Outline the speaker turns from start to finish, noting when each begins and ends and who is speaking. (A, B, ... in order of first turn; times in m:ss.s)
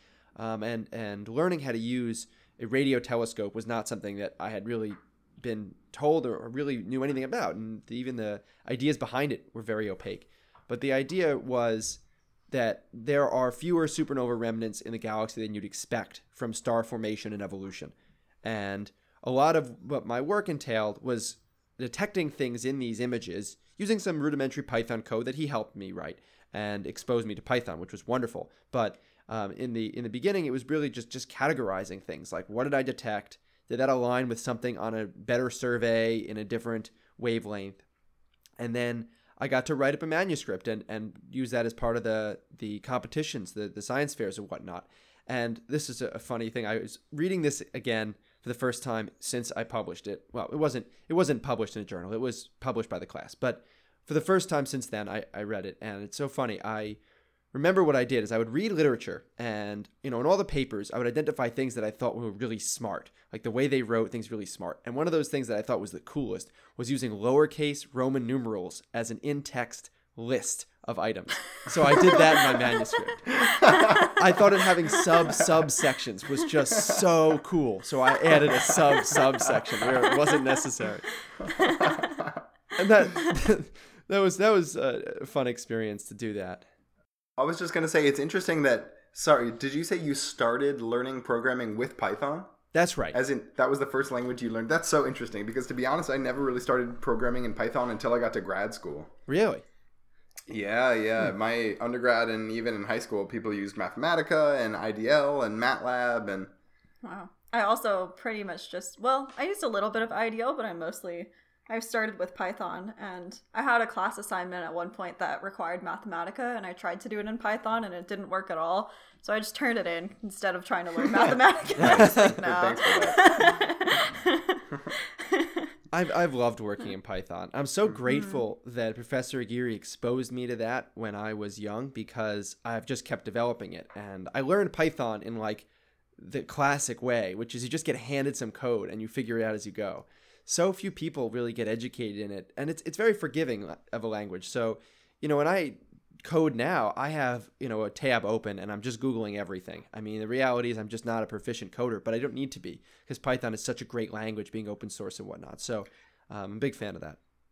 0:00.4-0:37.8 A
0:38.6-0:57.0 A
0:57.5-1:21.1 A
1:21.5-1:22.4 B
1:22.8-1:26.6 A
1:27.4-1:32.5 B
1:32.7-1:33.2 A
1:33.1-1:39.1 B
1:39.3-1:39.6 A
1:40.5-1:46.5 B
1:47.0-2:04.6 C
2:01.8-2:03.6 B
2:01.8-2:02.4 A
2:05.2-2:05.7 C
2:05.9-2:15.7 A
2:16.2-2:37.2 A